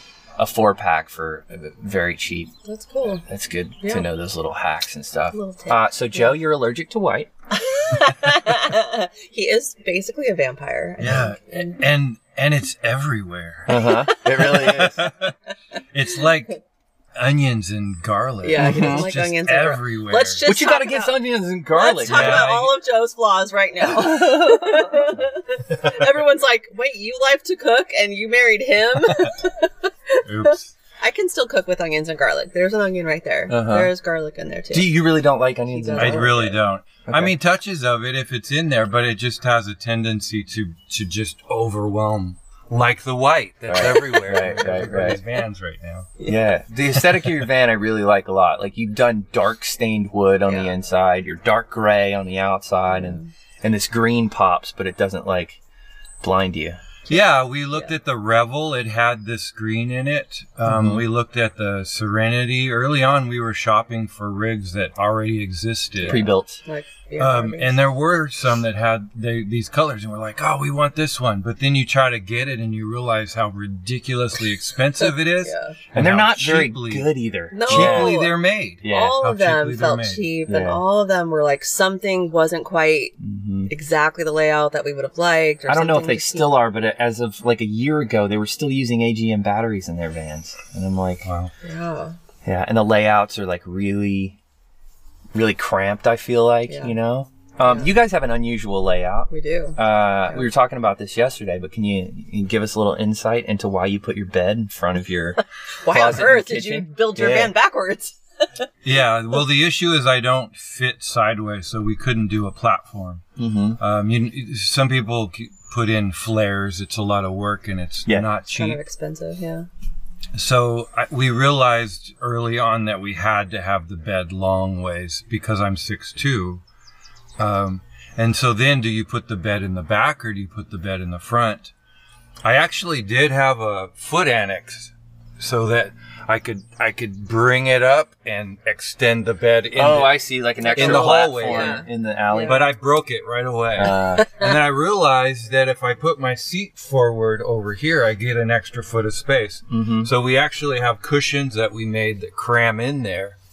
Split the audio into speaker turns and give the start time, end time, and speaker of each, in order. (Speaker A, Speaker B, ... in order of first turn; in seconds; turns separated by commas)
Speaker A: 0.4-2.5, Speaker B: 2.6-3.2, Speaker A: 3.2-7.3, Speaker B: 3.8-4.1, Speaker B: 5.3-6.3, Speaker B: 7.5-11.8, Speaker C: 11.0-15.3, Speaker A: 13.7-15.1, Speaker B: 13.7-14.6, Speaker C: 15.9-16.6, Speaker C: 17.1-20.4, Speaker B: 18.4-21.1, Speaker A: 18.5-19.1, Speaker A: 20.4-22.5, Speaker B: 21.7-35.0, Speaker C: 22.0-22.7, Speaker A: 23.8-25.0, Speaker C: 30.2-30.7, Speaker A: 33.5-33.9, Speaker A: 34.7-36.5, Speaker B: 35.7-36.5, Speaker C: 36.0-46.1, Speaker A: 37.1-37.3, Speaker A: 43.7-45.2, Speaker A: 46.2-55.6, Speaker B: 50.5-50.7, Speaker B: 52.9-53.3, Speaker A: 56.2-56.8, Speaker C: 57.1-66.2, Speaker A: 60.6-61.0, Speaker B: 66.0-67.8, Speaker A: 66.0-66.6, Speaker C: 67.2-77.1, Speaker B: 75.0-75.8, Speaker A: 75.9-78.1, Speaker B: 77.5-83.1, Speaker C: 77.6-80.3, Speaker A: 78.8-79.2, Speaker A: 80.5-80.8, Speaker A: 83.2-83.7, Speaker B: 83.7-86.5, Speaker A: 85.7-91.2, Speaker C: 91.2-91.5, Speaker B: 91.6-92.2, Speaker A: 92.4-94.3, Speaker A: 95.3-107.5, Speaker B: 96.7-96.9, Speaker B: 97.6-97.9, Speaker B: 99.3-100.5, Speaker B: 105.8-108.2, Speaker C: 108.8-113.2, Speaker A: 113.4-113.8, Speaker C: 113.8-118.8, Speaker A: 118.0-118.4, Speaker B: 118.5-119.7, Speaker C: 120.3-126.6, Speaker C: 127.4-131.7, Speaker C: 132.4-140.2, Speaker A: 139.7-142.7, Speaker B: 140.6-142.6, Speaker C: 140.7-141.8, Speaker C: 142.4-153.3, Speaker A: 143.8-144.3, Speaker B: 144.2-144.5, Speaker A: 149.7-150.1